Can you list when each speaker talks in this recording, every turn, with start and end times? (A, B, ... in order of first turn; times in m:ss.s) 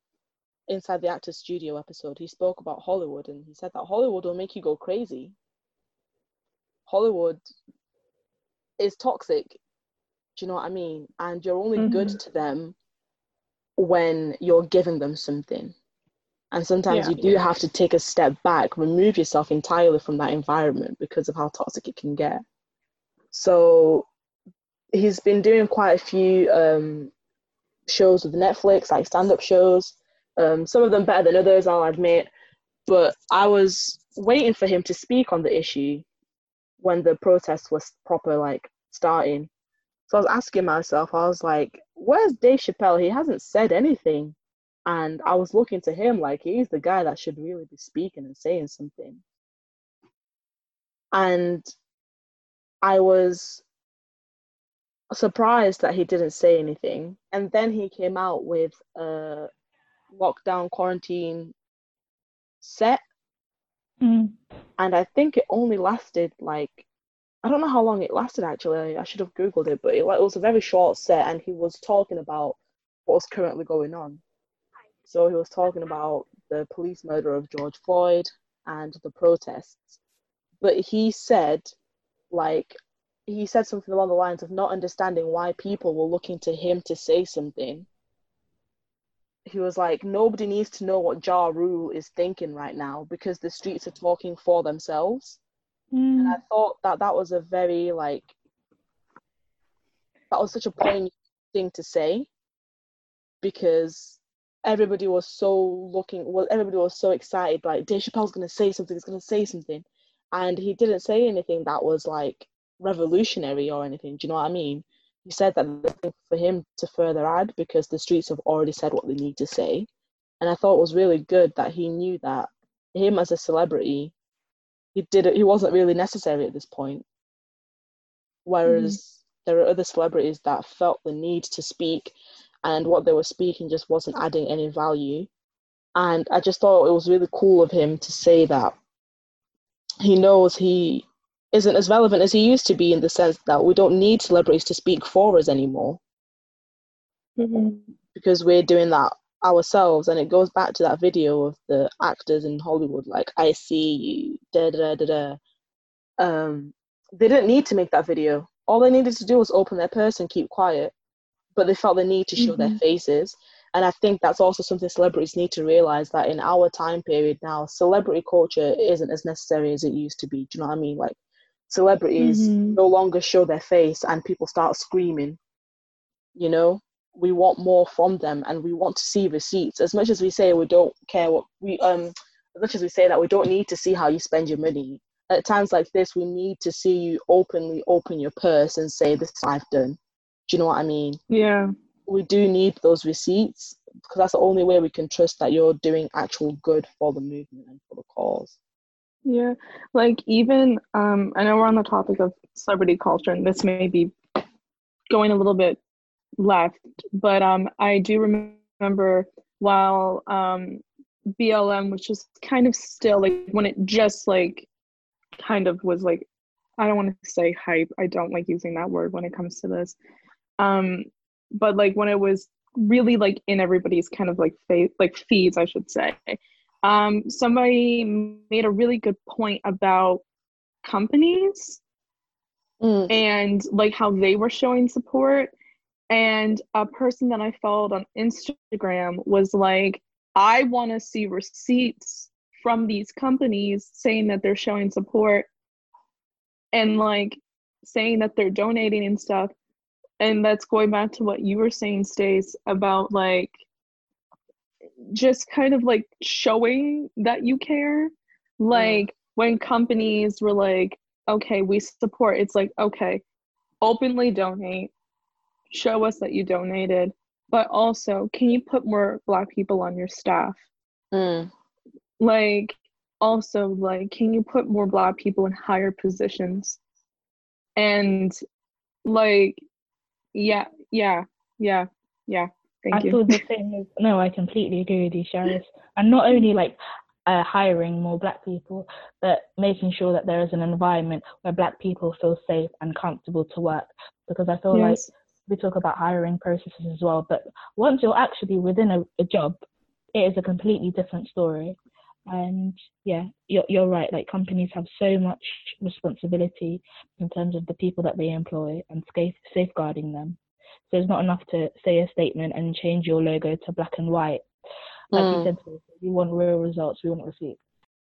0:00.7-0:05.3 A
0:06.9-0:07.4 A
0:08.8-0:09.6 A
0:10.4-0:12.8 A
0:11.8-0:12.2 B
0:13.8-0:15.7 A
0:16.5-0:22.4 A
0:16.9-0:17.4 B
0:23.3-0:24.0 A
0:24.9-0:27.1 A
0:27.9-0:32.3 A
0:32.8-0:36.0 A
0:36.8-0:39.5 A
0:40.1-0:49.2 A
0:51.1-0:51.7 A
0:52.8-0:53.6 A
0:55.1-0:59.5 A
1:00.1-1:01.5 A
1:02.6-1:03.0 A
1:04.0-1:04.3 C
1:04.8-1:06.8 A
1:07.4-1:14.2 A
1:15.0-1:20.0 A
1:20.6-1:21.7 A
1:22.3-1:27.9 A
1:29.4-1:35.4 A
1:35.9-1:36.4 C
1:36.2-1:38.3 A
1:40.3-1:42.3 A
1:43.4-1:59.9 A
2:00.4-2:04.1 A
2:04.9-2:07.0 A
2:08.4-2:15.3 A
2:08.6-2:09.0 B
2:15.9-2:18.8 A
2:20.0-2:26.0 A
2:27.4-2:27.9 B
2:28.1-2:35.4 A
2:36.2-2:40.9 A
2:41.5-2:51.2 A
2:42.4-2:42.8 B
2:51.7-2:55.4 A
2:52.2-2:52.8 B
2:56.4-3:11.2 A
3:11.3-3:11.7 B
3:12.1-3:18.6 A
3:19.2-3:24.1 B
3:25.1-3:25.8 B
3:26.4-3:30.8 B
3:31.4-3:34.7 B
3:35.4-3:36.2 B
3:36.8-3:40.0 B
3:40.6-3:50.2 B
3:50.8-3:51.8 B
3:52.8-3:53.2 A
3:53.1-3:55.5 B
3:56.1-4:05.5 B
4:06.7-4:09.5 B
4:10.2-4:13.5 B
4:15.0-4:23.2 B
4:18.7-4:19.0 A
4:23.8-4:24.9 B
4:25.7-4:30.6 B
4:31.1-4:31.5 A
4:32.2-4:36.8 B
4:37.8-4:38.4 B
4:39.0-4:39.6 B
4:40.3-4:43.4 B
4:42.9-4:59.6 C
4:54.7-4:55.1 B
5:00.1-5:10.4 C
5:10.9-5:14.4 C
5:15.1-5:15.5 A
5:15.1-5:17.6 C